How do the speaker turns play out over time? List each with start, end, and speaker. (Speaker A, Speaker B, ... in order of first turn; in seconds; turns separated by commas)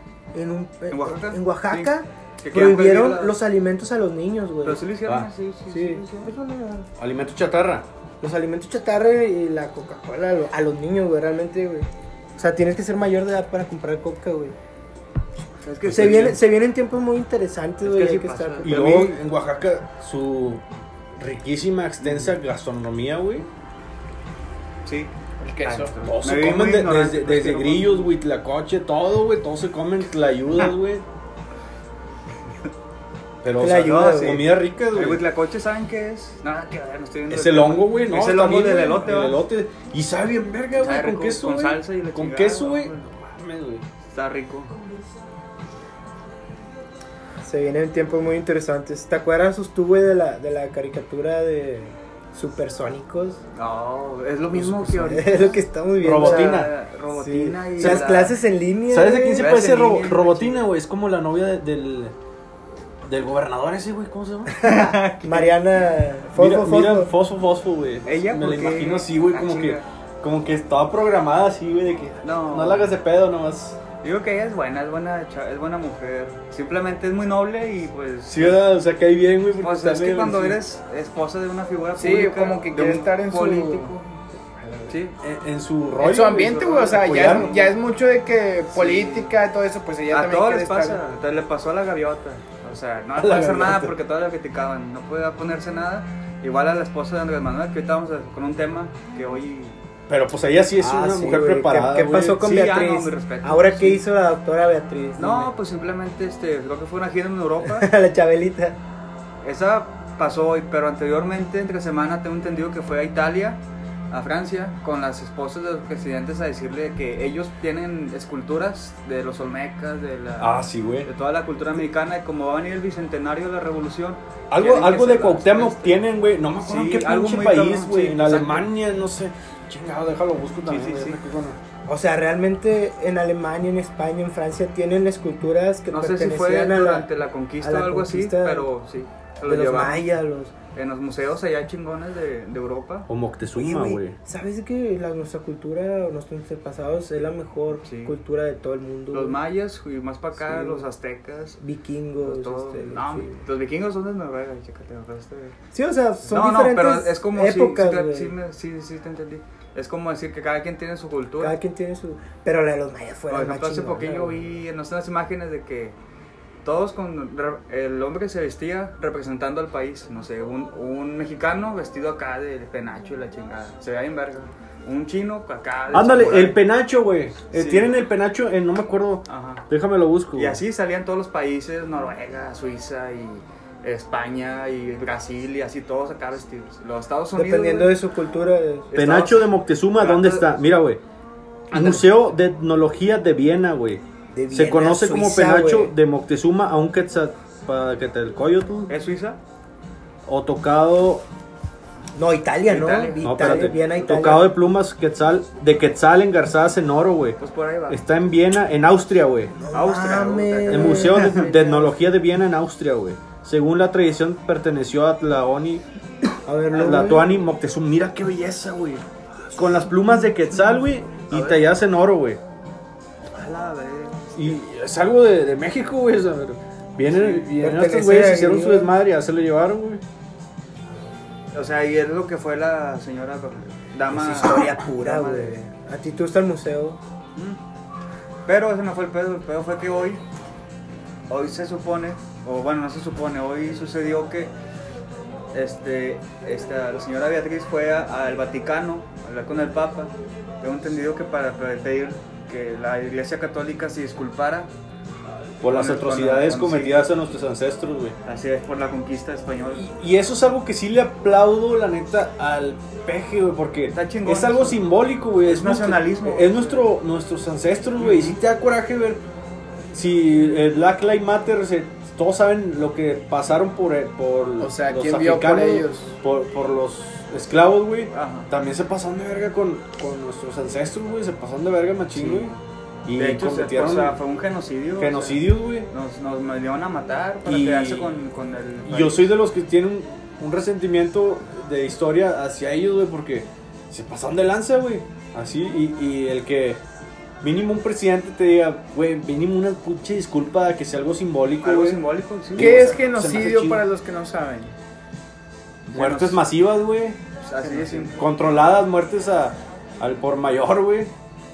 Speaker A: 0.3-4.8, Speaker B: 0.9-3.4, Speaker B: 4.6-6.3, Speaker A: 5.7-6.9, Speaker C: 7.0-7.9, Speaker A: 8.2-14.6, Speaker B: 15.6-16.4, Speaker A: 15.9-19.1, Speaker B: 17.8-18.8, Speaker C: 18.6-20.6, Speaker C: 21.2-23.5, Speaker B: 22.0-22.3, Speaker B: 24.9-28.1, Speaker D: 25.4-25.9, Speaker C: 26.0-31.1, Speaker C: 33.4-35.2, Speaker A: 33.6-34.5, Speaker B: 33.9-39.4, Speaker C: 37.3-43.9, Speaker B: 40.8-43.1, Speaker B: 44.1-44.8, Speaker A: 47.4-53.4, Speaker B: 53.5-55.6, Speaker C: 54.5-55.2, Speaker A: 55.0-59.5, Speaker C: 56.0-56.7, Speaker B: 56.1-58.4, Speaker C: 57.8-58.1, Speaker C: 58.9-62.1, Speaker B: 59.4-60.7, Speaker C: 63.0-64.6, Speaker B: 64.6-65.6, Speaker A: 65.2-67.1, Speaker C: 66.3-73.8, Speaker B: 68.0-69.8, Speaker B: 72.2-73.0, Speaker B: 74.0-78.7, Speaker C: 78.3-80.6, Speaker B: 79.6-84.2, Speaker D: 82.0-84.0, Speaker D: 84.6-85.0, Speaker B: 84.9-85.2, Speaker C: 85.2-87.5, Speaker D: 86.0-91.0, Speaker B: 86.0-87.8, Speaker B: 88.7-89.3, Speaker B: 90.1-99.8, Speaker C: 93.2-94.0, Speaker C: 100.1-102.4, Speaker A: 100.8-105.5, Speaker B: 102.4-104.0, Speaker B: 105.2-107.9, Speaker A: 107.6-108.8, Speaker B: 109.4-126.1, Speaker C: 120.4-121.1, Speaker C: 124.5-131.6, Speaker B: 126.6-128.7, Speaker B: 130.7-131.2, Speaker A: 131.9-138.7, Speaker B: 135.9-140.1, Speaker A: 139.4-140.5, Speaker B: 140.7-143.1, Speaker C: 143.1-144.2, Speaker A: 143.6-149.4, Speaker B: 147.8-148.2, Speaker B: 149.1-151.6, Speaker A: 150.4-150.8, Speaker A: 151.6-153.4, Speaker B: 152.2-155.6, Speaker A: 155.7-158.3, Speaker B: 156.3-161.6, Speaker A: 161.4-164.5, Speaker B: 163.3-166.0, Speaker B: 166.6-176.6, Speaker C: 175.9-180.6, Speaker B: 177.5-177.9, Speaker B: 179.3-179.7, Speaker B: 180.3-188.0, Speaker A: 187.4-188.9, Speaker B: 188.9-190.6, Speaker C: 188.9-191.0, Speaker B: 191.7-192.1, Speaker C: 191.7-198.9, Speaker A: 194.3-195.9, Speaker B: 198.9-199.4, Speaker C: 200.3-201.2, Speaker A: 202.2-204.5, Speaker B: 202.7-203.8, Speaker C: 203.2-209.5, Speaker B: 207.4-208.0, Speaker A: 209.6-212.1, Speaker B: 209.7-211.6, Speaker C: 210.7-215.8, Speaker A: 216.5-217.3, Speaker C: 216.7-222.4, Speaker B: 221.3-221.7, Speaker B: 223.3-224.6, Speaker C: 224.3-230.0, Speaker B: 227.1-227.5, Speaker A: 227.5-228.9, Speaker B: 231.5-235.6, Speaker A: 234.1-237.0, Speaker B: 238.5-240.2, Speaker B: 241.3-244.5, Speaker B: 245.5-254.7, Speaker C: 255.6-258.2, Speaker B: 255.7-257.1, Speaker B: 258.2-259.9, Speaker C: 259.8-269.2, Speaker B: 263.9-264.8, Speaker B: 265.5-266.9, Speaker B: 268.0-268.4, Speaker C: 269.9-282.5, Speaker D: 274.6-276.2, Speaker B: 278.1-278.5, Speaker B: 282.1-282.6, Speaker C: 283.1-284.2, Speaker B: 283.2-289.3, Speaker C: 285.0-285.9, Speaker C: 287.5-288.2, Speaker C: 288.9-296.8, Speaker C: 297.4-303.9, Speaker B: 301.6-303.1, Speaker D: 302.5-304.8, Speaker C: 305.9-311.1, Speaker B: 305.9-306.4, Speaker B: 307.4-308.2